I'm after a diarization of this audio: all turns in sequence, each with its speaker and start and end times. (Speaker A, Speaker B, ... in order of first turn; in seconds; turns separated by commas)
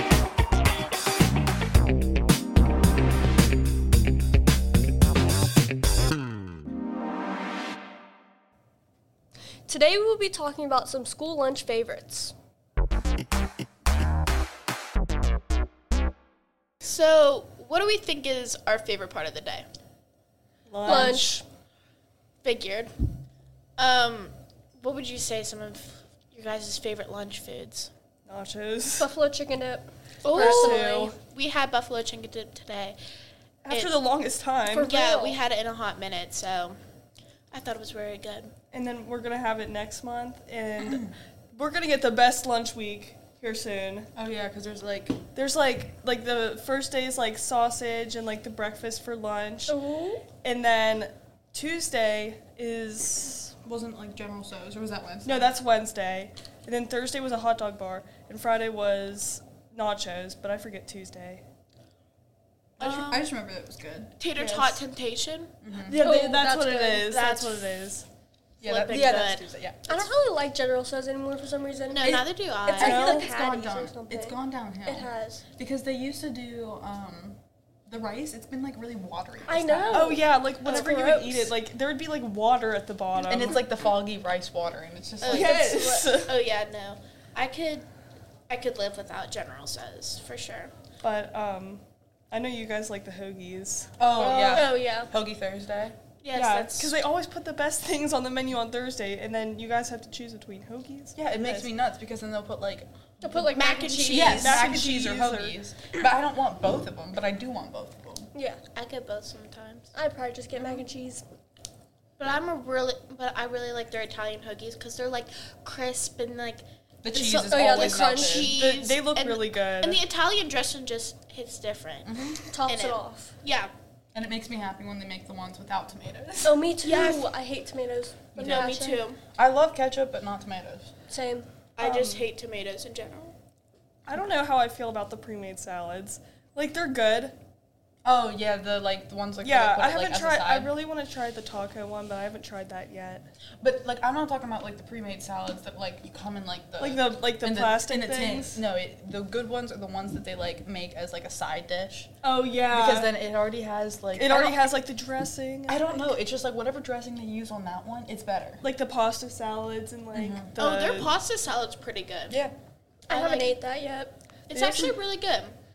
Speaker A: 9.7-12.3, Speaker B: 16.8-19.6, Speaker C: 20.7-21.3, Speaker A: 20.8-21.4, Speaker B: 20.9-21.4, Speaker B: 22.4-22.9, Speaker B: 23.8-27.9, Speaker C: 28.3-29.1, Speaker A: 29.0-31.1, Speaker B: 30.2-33.0, Speaker C: 30.3-31.1, Speaker C: 33.6-34.9, Speaker A: 34.7-35.4, Speaker B: 34.8-36.8, Speaker B: 37.5-38.5, Speaker C: 38.7-44.1, Speaker D: 40.8-41.1, Speaker D: 44.1-45.2, Speaker C: 45.3-49.8, Speaker A: 49.7-50.3, Speaker C: 50.4-53.5, Speaker D: 53.6-55.5, Speaker C: 55.2-61.4, Speaker D: 62.8-64.2, Speaker B: 62.8-63.2, Speaker B: 64.2-65.5, Speaker C: 64.3-64.8, Speaker D: 65.6-66.0, Speaker C: 65.8-68.0, Speaker A: 66.0-67.4, Speaker D: 68.6-70.1, Speaker B: 68.6-69.4, Speaker A: 69.9-75.4, Speaker B: 71.9-73.1, Speaker D: 72.7-80.2, Speaker C: 72.7-73.3, Speaker A: 79.5-81.5, Speaker C: 79.9-83.6, Speaker D: 83.3-85.9, Speaker B: 85.2-87.9, Speaker C: 85.3-86.4, Speaker B: 88.5-90.7, Speaker C: 91.0-94.7, Speaker D: 94.0-96.0, Speaker A: 94.2-95.1, Speaker B: 96.2-97.0, Speaker C: 96.3-101.7, Speaker D: 101.1-103.5, Speaker A: 103.2-104.5, Speaker B: 103.5-104.7, Speaker D: 104.1-108.3, Speaker C: 104.3-105.5, Speaker A: 108.3-108.6, Speaker B: 108.7-109.9, Speaker A: 109.9-111.2, Speaker B: 112.2-122.1, Speaker D: 117.0-118.5, Speaker A: 117.4-118.5, Speaker C: 118.5-120.0, Speaker D: 122.0-122.4, Speaker A: 122.5-123.3, Speaker B: 122.7-123.7, Speaker D: 124.1-126.6, Speaker A: 126.4-129.0, Speaker B: 126.8-127.2, Speaker D: 128.3-128.7, Speaker B: 128.4-129.2, Speaker D: 129.3-130.9, Speaker A: 131.1-131.5, Speaker B: 131.8-133.3, Speaker C: 131.8-132.2, Speaker C: 134.1-137.3, Speaker D: 138.0-140.7, Speaker C: 139.4-143.3, Speaker D: 143.6-152.1, Speaker C: 146.8-148.6, Speaker C: 152.2-153.1, Speaker D: 152.7-154.6, Speaker C: 154.2-156.1, Speaker D: 155.7-158.6, Speaker C: 158.6-161.1, Speaker D: 160.1-160.5, Speaker B: 160.6-162.4, Speaker A: 163.1-164.2, Speaker B: 163.1-163.5, Speaker B: 164.5-165.6, Speaker C: 164.5-164.9